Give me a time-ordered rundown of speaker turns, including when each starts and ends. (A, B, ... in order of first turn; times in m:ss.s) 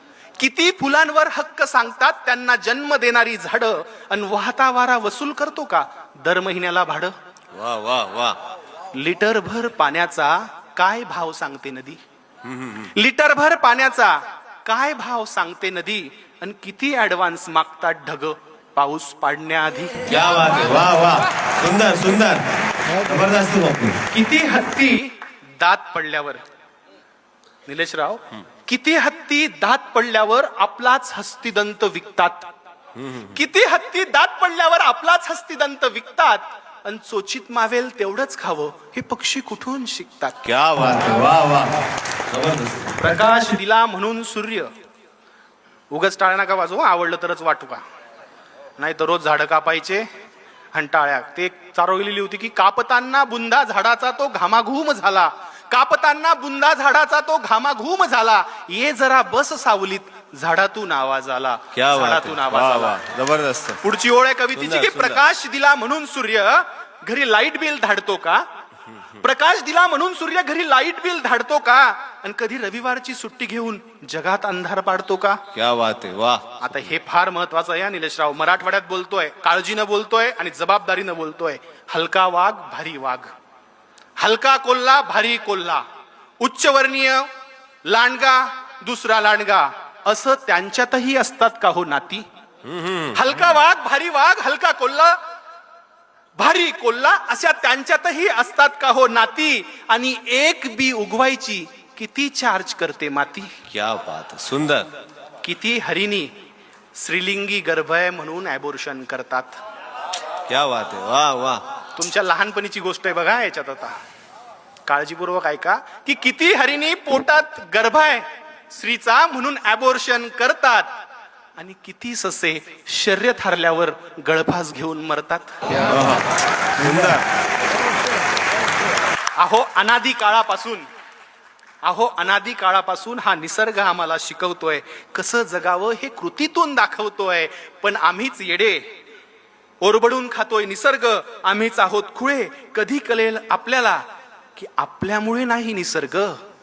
0:00.4-0:07.1 A
0:07.5-0:08.4 B
0:08.9-0:12.0 A
0:12.4-0:12.9 B
0:12.8-0:20.1 A
0:20.0-0:22.4 B
0:23.0-0:24.0 B
0:24.1-0:26.4 A
0:27.6-0:32.5 A
0:33.0-0:33.3 B
0:33.2-0:40.4 A
0:40.4-0:43.0 B
0:43.0-0:44.7 A
0:45.9-0:47.8 A
0:48.8-0:50.1 A
0:50.7-1:03.0 A
1:01.7-1:03.8 B
1:03.8-1:08.4 A
1:04.5-1:05.2 B
1:09.1-1:15.4 A
1:15.5-1:16.5 B
1:16.6-1:23.3 A
1:24.2-1:25.8 A
1:26.4-1:27.3 A
1:27.8-1:32.2 A
1:32.7-1:33.4 B
1:33.0-1:35.2 A
1:36.4-1:43.6 A
1:43.7-1:44.9 B
1:45.4-1:46.3 A
1:46.9-1:49.6 A
1:50.5-1:51.6 B
1:51.9-1:53.9 A
1:54.9-2:01.0 A
2:01.6-2:05.8 A
2:05.7-2:07.2 B
2:09.4-2:10.9 A
2:11.8-2:18.8 A
2:19.8-2:24.0 A
2:24.5-2:26.4 A